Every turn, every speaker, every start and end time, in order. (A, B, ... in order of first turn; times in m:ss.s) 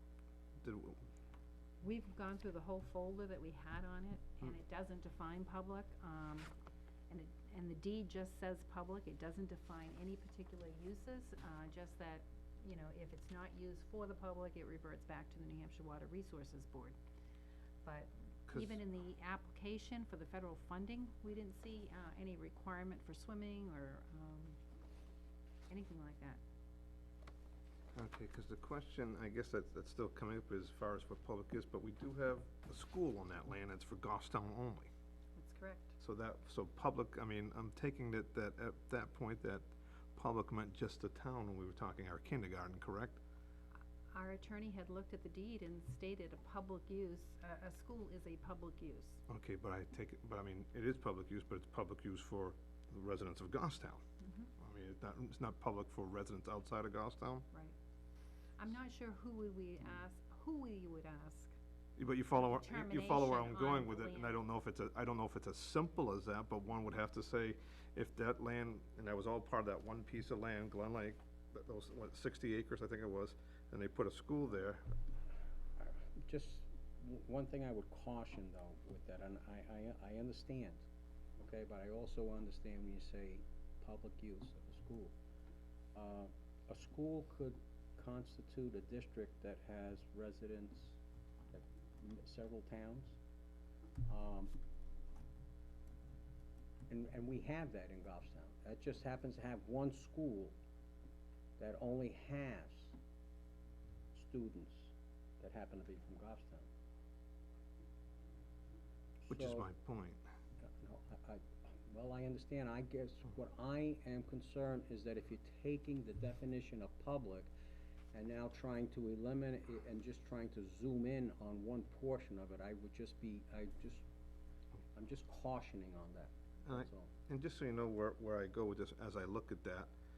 0:00.6-0:01.0 A
0:01.8-0:06.5 B
0:07.1-0:17.0 B
0:17.8-0:24.6 B
0:18.5-0:18.8 A
0:25.7-0:26.4 B
0:27.9-0:34.9 A
0:35.4-0:35.9 B
0:36.0-0:43.2 A
0:44.1-0:49.2 B
0:49.3-0:54.0 A
0:54.2-0:54.5 B
0:54.6-0:57.4 A
0:58.6-1:01.5 B
1:02.0-1:14.8 A
1:02.4-1:04.3 B
1:15.8-1:20.8 C
1:21.4-1:25.1 C
1:25.9-1:31.0 C
1:31.5-1:33.2 C
1:34.0-1:34.5 C
1:36.9-1:40.5 C
1:41.6-1:43.0 C
1:44.1-1:46.7 C
1:49.3-1:49.7 C
1:49.3-1:50.2 A
1:50.6-1:57.5 C
1:58.1-2:04.0 C
2:04.9-2:07.1 C
2:06.7-2:09.9 A